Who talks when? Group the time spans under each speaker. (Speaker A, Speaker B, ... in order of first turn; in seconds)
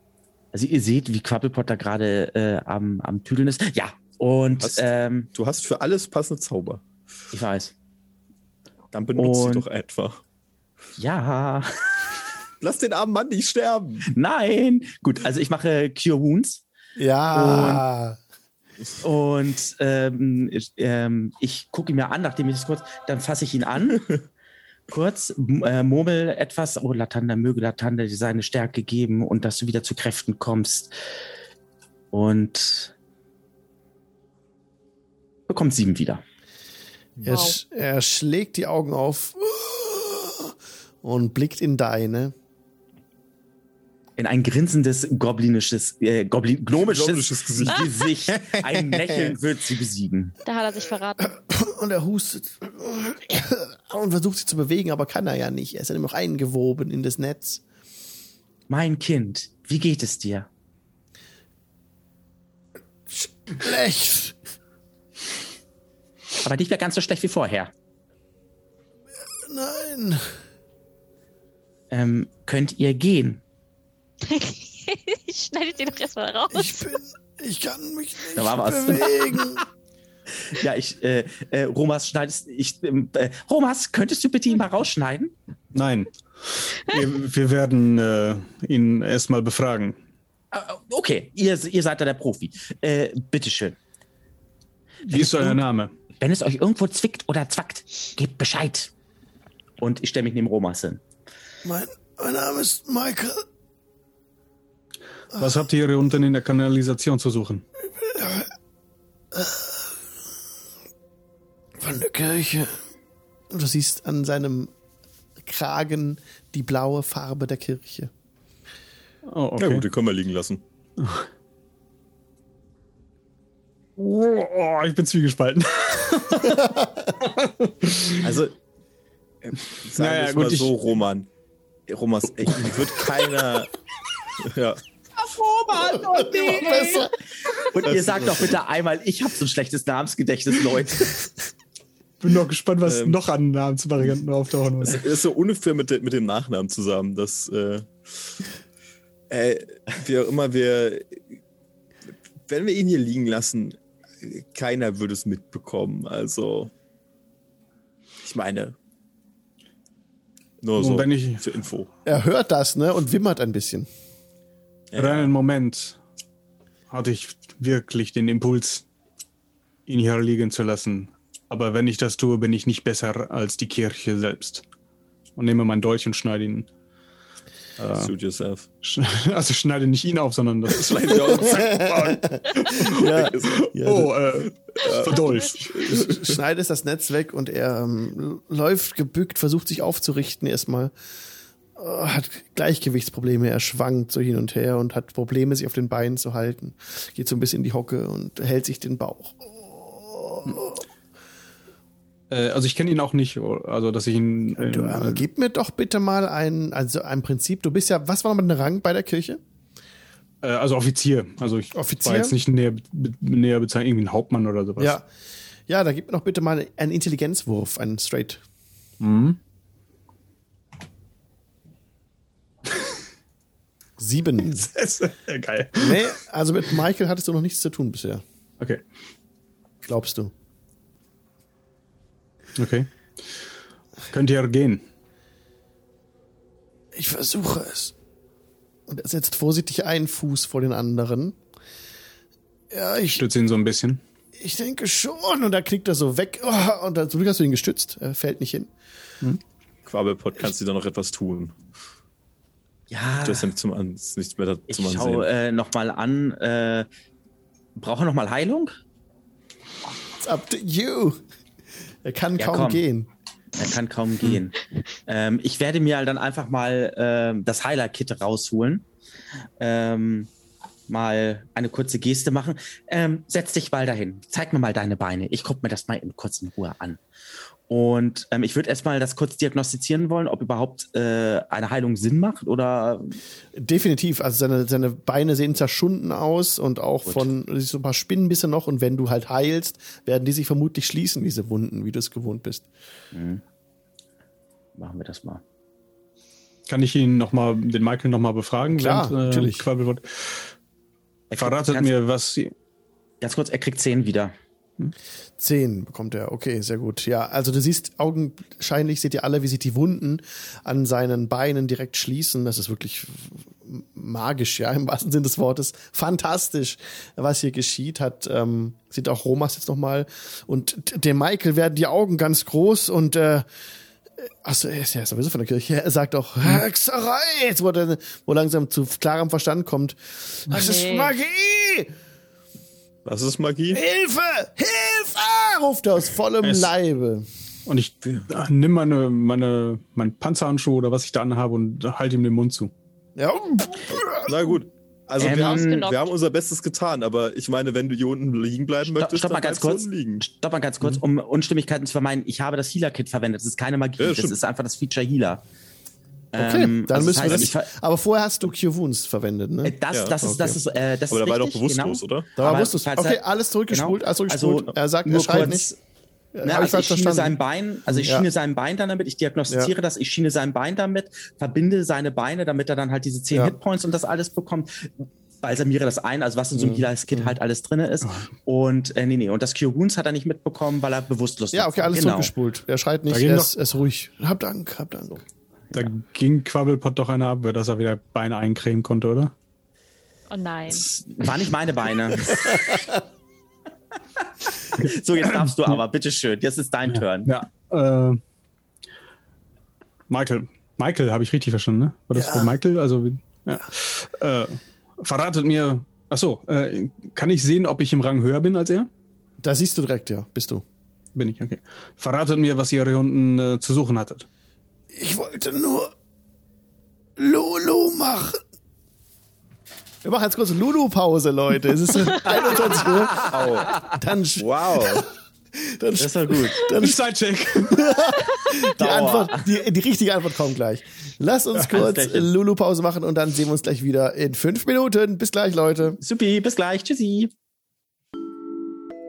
Speaker A: 0.5-5.3, 7.3-7.7, 9.2-9.7, 11.0-12.2, 14.1-16.6, 17.3-17.8, 19.0-24.1, 24.9-30.9, 32.1-32.9, 35.5-36.2, 44.2-50.4, 58.7-60.5, 66.4-67.7, 71.9-73.4, 78.3-79.6, 80.4-85.3, 90.5-93.8, 95.2-95.6, 96.2-98.9, 99.8-101.0, 135.3-141.3, 252.9-253.5, 254.7-256.9, 257.8-258.7, 262.4-262.8, 263.6-268.9, 269.6-270.3, 270.9-277.0, 277.7-283.2, 293.1-293.4, 294.8-295.4, 301.3-301.9, 303.2-304.3, 345.2-345.9, 348.9-355.4, 356.3-357.7, 359.6-365.8, 366.4-382.3, 390.7-392.8, 394.7-397.3, 423.0-423.4, 426.0-426.7, 428.8-429.5, 431.6-432.3, 436.0-437.3
Speaker B: 4.6-6.8, 8.9-10.2, 12.6-14.1, 46.8-48.0, 119.6-120.6, 128.2-128.6, 129.4-131.3, 131.9-133.7, 134.4-134.8, 137.8-138.6, 142.8-143.2, 144.8-147.9, 149.3-151.2, 152.5-156.7, 158.2-158.8, 160.6-161.9, 164.9-165.3, 177.8-178.7, 180.7-182.0, 182.7-183.7, 184.8-186.3, 249.8-251.6, 253.2-255.3, 333.1-333.8, 338.0-338.3, 344.2-350.2, 354.0-354.4, 359.9-362.3, 423.3-423.7, 424.4-425.1
Speaker C: 17.0-18.2, 37.2-42.3, 51.2-57.6, 63.1-64.4, 69.5-70.2, 76.5-79.6, 101.7-103.4, 108.0-108.5, 109.3-109.8, 111.8-112.8, 113.5-114.7, 115.4-118.1, 135.8-137.1, 162.1-163.9, 181.9-184.2, 185.8-190.9, 191.8-200.8, 204.6-209.4, 211.7-212.4, 214.8-215.1, 215.7-218.4, 224.0-224.7, 225.8-228.2, 229.8-230.3, 236.9-237.9, 238.9-241.4, 242.7-243.2, 244.4-248.7, 260.2-261.2, 262.0-263.1, 283.6-292.7, 298.7-299.7, 305.4-323.5, 324.4-331.9, 333.7-337.3, 343.2-344.3, 356.3-359.8, 362.4-365.7, 366.3-367.4, 367.9-368.3, 369.5-369.7, 376.6-377.3, 381.5-385.2, 392.4-392.8, 402.1-402.6, 409.4-410.6, 414.9-415.9, 417.2-418.4, 420.0-427.0, 427.6-436.0
Speaker D: 37.3-37.6, 50.4-51.3, 74.2-77.0, 330.5-331.1, 345.2-346.0, 390.3-390.9
Speaker E: 85.7-90.0, 95.1-95.9, 105.4-107.6, 119.3-119.9, 121.0-121.3, 124.0-128.3, 130.0-130.7, 142.2-145.0, 160.8-161.5, 165.0-166.0, 166.9-168.8, 169.9-174.7, 175.4-176.7, 177.8-178.1, 178.8-183.0, 183.8-186.1, 202.3-205.2, 210.4-215.0, 219.0-219.4, 224.6-226.1, 232.6-232.9, 234.1-234.8, 243.2-244.0, 296.7-300.5, 301.3-302.5, 336.4-336.7, 337.7-342.7, 378.0-378.3, 383.1-383.5, 385.7-389.3, 394.8-395.8, 397.0-398.2, 400.1-408.9, 411.1-414.3, 426.7-428.1